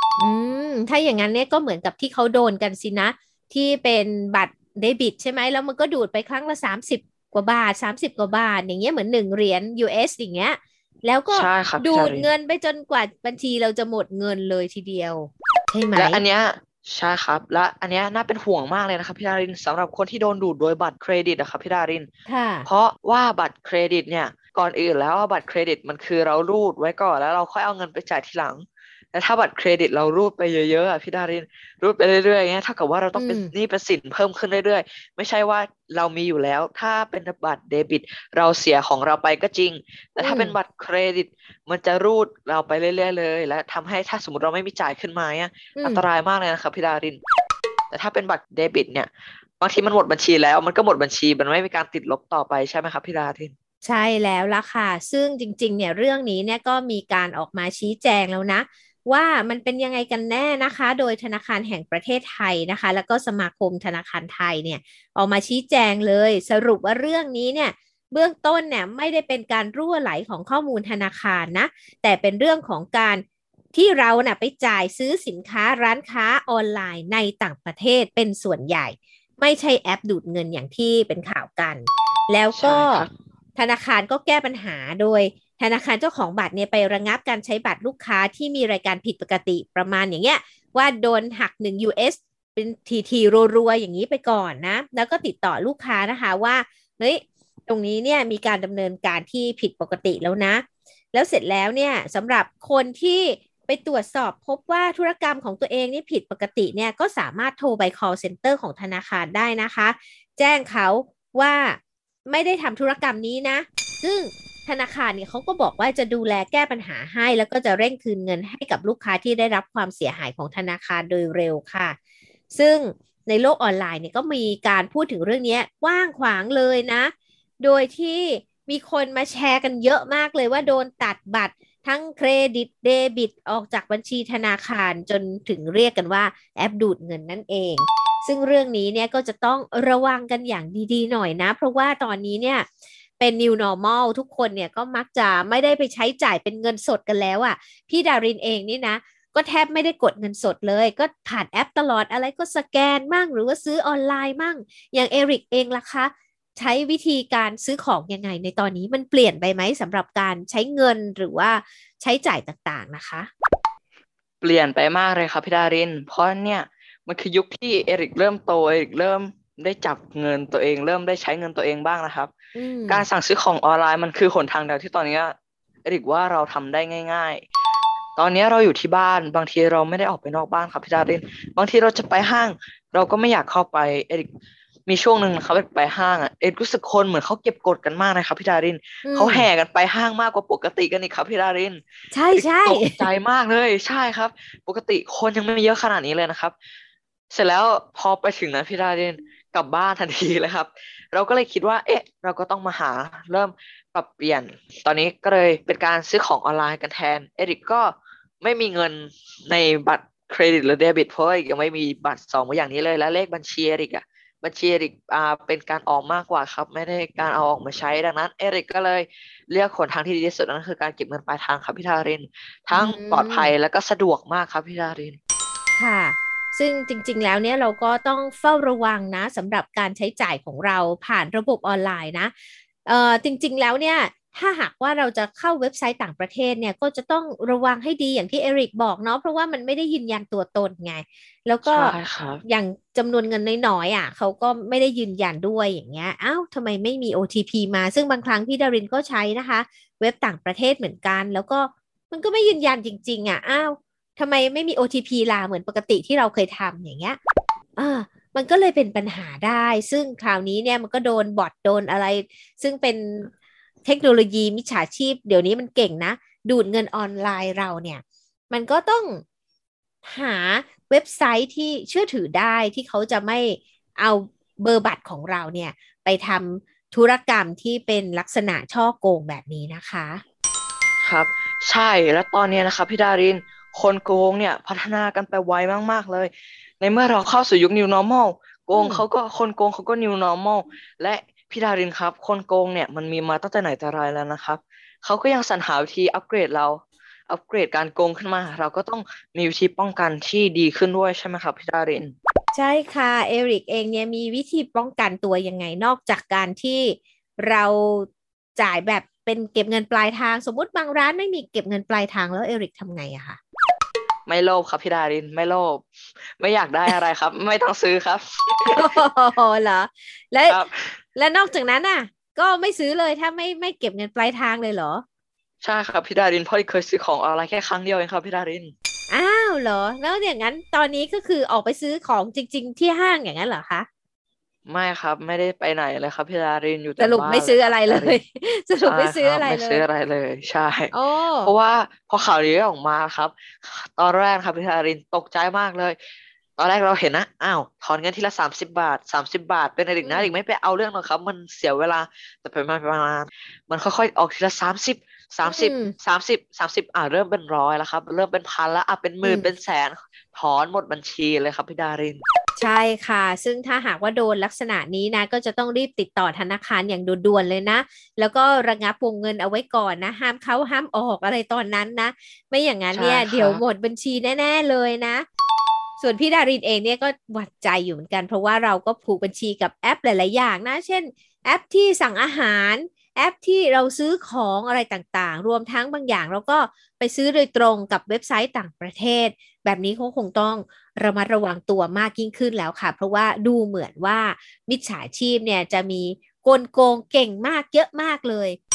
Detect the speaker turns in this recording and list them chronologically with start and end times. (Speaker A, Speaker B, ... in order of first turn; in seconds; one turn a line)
Speaker A: 0.2-16.2
Speaker B: 11.3-12.3
Speaker B: 15.9-22.1
Speaker A: 22.3-22.7
Speaker B: 22.7-47.2
Speaker A: 33.1-33.5
Speaker A: 40.2-40.6
Speaker A: 45.8-46.0
Speaker B: 47.9-53.5
Speaker A: 53.8-122.0
Speaker B: 82.5-83.1
Speaker A: 122.5-142.7
Speaker A: 143.2-163.3
Speaker B: 164.4-172.3
Speaker A: 172.6-173.1
Speaker B: 172.9-177.4
Speaker B: 178.2-184.3
Speaker B: 184.9-191.8
Speaker A: 189.0-189.5
Speaker A: 192.1-193.1
Speaker B: 192.3-196.6
Speaker B: 197.3-225.2
Speaker A: 222.7-223.5
Speaker A: 225.8-232.3
Speaker A: 232.9-257.2
Speaker B: 241.7-242.4
Speaker A: 257.8-263.3
Speaker A: 263.9-269.2
Speaker A: 270.0-280.2
Speaker B: 281.0-302.1
Speaker A: 288.7-289.0
Speaker A: 302.5-313.4
Speaker B: 314.3-318.9
Speaker A: 318.7-320.6
Speaker B: 320.5-321.0
Speaker A: 321.1-325.0
Speaker B: 325.6-328.7
Speaker A: 329.1-333.9
Speaker B: 334.7-338.2
Speaker A: 337.0-339.8
Speaker B: 338.8-346.0
Speaker A: 340.9-341.5
Speaker B: 346.6-362.2
Speaker A: 350.0-350.3
Speaker A: 355.4-355.9
Speaker A: 359.2-359.5
Speaker A: 362.6-375.2
Speaker B: 372.9-373.6
Speaker A: 376.0-398.6